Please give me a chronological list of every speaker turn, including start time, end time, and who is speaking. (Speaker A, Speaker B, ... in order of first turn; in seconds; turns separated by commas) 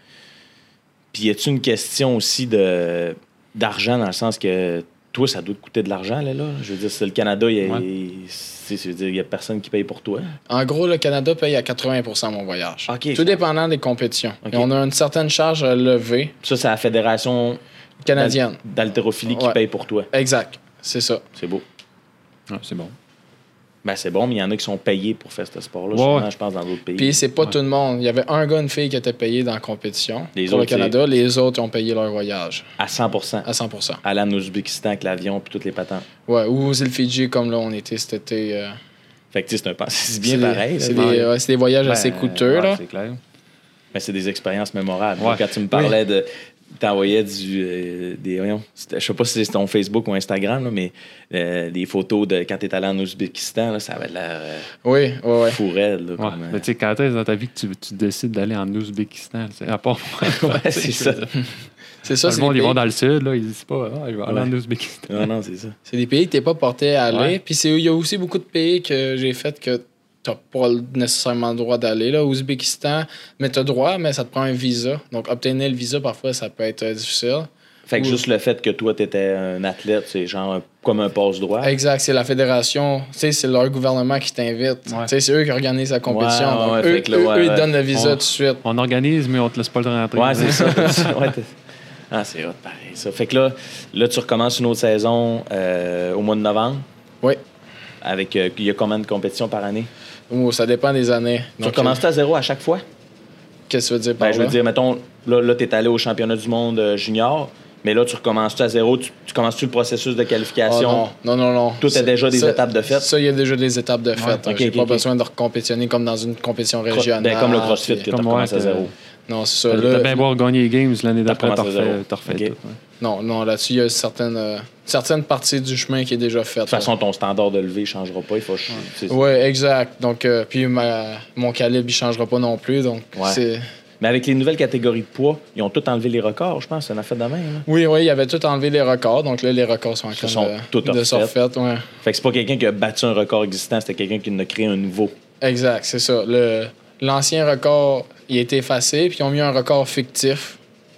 Speaker A: 1.1-10.3, Speaker B: 10.5-16.3, Speaker A: 12.9-13.4, Speaker A: 14.4-14.7, Speaker A: 16.4-17.6, Speaker B: 18.0-18.6, Speaker A: 18.1-20.1, Speaker B: 19.3-19.6, Speaker B: 20.1-21.2, Speaker A: 21.4-21.6, Speaker C: 22.5-22.9, Speaker A: 23.8-27.2, Speaker C: 25.9-26.3, Speaker B: 26.9-32.7, Speaker A: 30.3-30.9, Speaker A: 32.8-33.5, Speaker B: 33.4-34.0, Speaker A: 34.0-36.0, Speaker B: 36.3-38.8, Speaker A: 39.3-41.3, Speaker B: 40.2-42.8, Speaker C: 40.9-41.2, Speaker C: 41.8-43.2, Speaker A: 43.9-54.7, Speaker C: 45.2-45.4, Speaker B: 54.8-55.6, Speaker A: 55.4-56.6, Speaker C: 56.2-61.4, Speaker A: 60.2-61.2, Speaker B: 62.0-62.8, Speaker C: 62.2-65.3, Speaker A: 65.1-65.8, Speaker B: 65.9-78.2, Speaker A: 77.9-81.8, Speaker B: 81.6-88.6, Speaker A: 86.1-87.7, Speaker C: 87.9-91.2, Speaker A: 90.1-91.5, Speaker B: 90.5-91.0, Speaker A: 92.1-96.8, Speaker A: 98.0-99.9, Speaker B: 100.3-102.0, Speaker A: 101.6-102.8, Speaker B: 103.7-104.6, Speaker A: 104.2-111.0, Speaker B: 110.7-118.1, Speaker A: 111.8-113.1, Speaker C: 114.2-114.4, Speaker A: 114.4-115.0, Speaker A: 116.9-118.9, Speaker C: 118.1-118.9, Speaker B: 119.3-120.2, Speaker C: 119.7-122.8, Speaker A: 121.2-122.5, Speaker B: 123.0-126.9, Speaker A: 126.7-129.2, Speaker B: 129.1-133.6, Speaker A: 133.1-133.4, Speaker A: 134.0-137.7, Speaker B: 137.7-141.9, Speaker A: 140.1-141.3, Speaker A: 142.0-145.2, Speaker B: 145.4-150.6